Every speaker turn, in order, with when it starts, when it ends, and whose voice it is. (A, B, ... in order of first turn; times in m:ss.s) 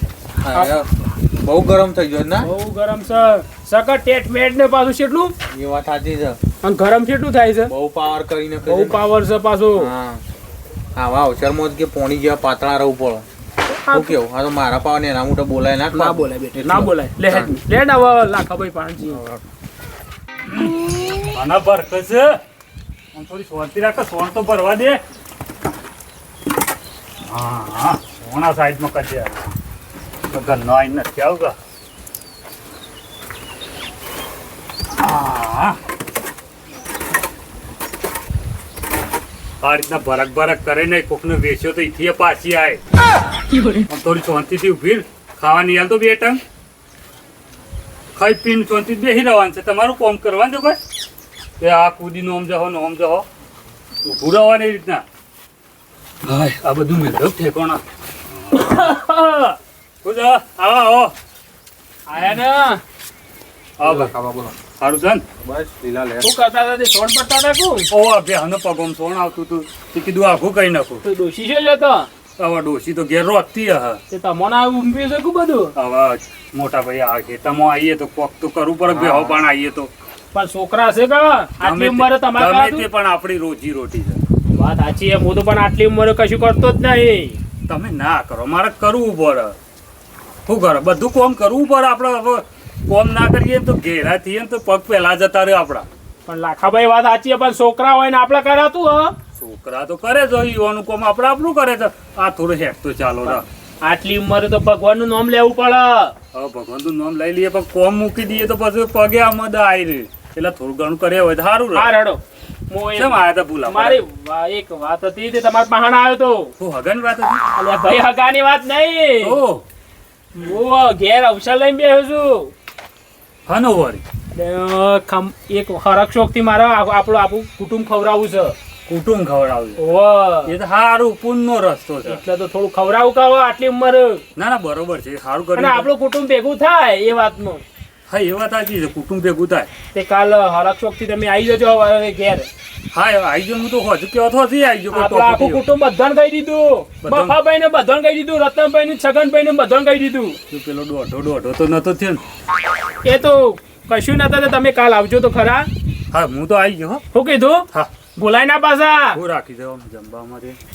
0:00.4-0:02.5 A
0:02.4-0:05.3 B
0:05.5-0:06.4 A
0:06.6-0:07.7 B
0:07.7-0:09.0 A
0:08.6-0:09.9 B
0:09.8-0:10.2 A
0:11.0-0:13.2 A
0:13.7-0:14.2 B
0:13.9-0:17.5 A
0:15.9-0:19.2 B
0:19.0-0:19.4 A
0:20.4-0:22.4 C
0:23.1-0:25.0 C
0:27.3-0:29.6 C
0:30.3-0:31.5 C
0:35.0-0:35.8 C
0:39.6-0:42.8 C
0:43.5-0:43.8 B
0:43.9-0:46.4 C
0:48.2-0:50.8 C
0:51.6-0:53.2 C
0:54.0-0:55.0 C
0:56.2-0:57.8 C
0:58.3-1:01.1 C
0:58.5-0:59.1 B
1:02.1-1:02.8 B
1:03.8-1:04.1 C
1:03.8-1:04.5 A
1:04.8-1:05.2 C
1:05.4-1:06.3 A
1:06.2-1:07.9 B
1:07.9-1:11.0 C
1:11.0-1:12.1 B
1:12.4-1:14.0 C
1:14.1-1:15.7 B
1:15.7-1:19.9 C
1:18.9-1:19.4 A
1:20.3-1:22.8 B
1:21.6-1:24.2 C
1:24.5-1:27.4 B
1:27.7-1:29.6 C
1:30.4-1:35.9 C
1:36.3-1:39.2 B
1:39.4-1:43.4 C
1:43.2-1:46.1 B
1:46.3-1:51.9 C
1:51.7-1:56.5 B
1:53.0-1:54.0 C
1:56.6-1:57.5 C
1:57.6-1:59.4 B
1:59.2-1:59.6 C
2:00.4-2:02.5 B
2:03.5-2:04.0 C
2:04.3-2:08.5 B
2:08.9-2:09.8 C
2:09.8-2:10.5 B
2:10.4-2:12.2 C
2:12.0-2:14.2 B
2:14.4-2:15.9 C
2:15.5-2:17.6 B
2:18.1-2:19.7 C
2:19.9-2:22.5 B
2:22.9-2:25.6 C
2:24.9-2:30.4 B
2:27.0-2:27.4 C
2:30.5-2:32.2 C
2:33.0-2:35.7 B
2:36.1-2:37.0 C
2:37.1-2:39.2 B
2:39.1-2:40.6 C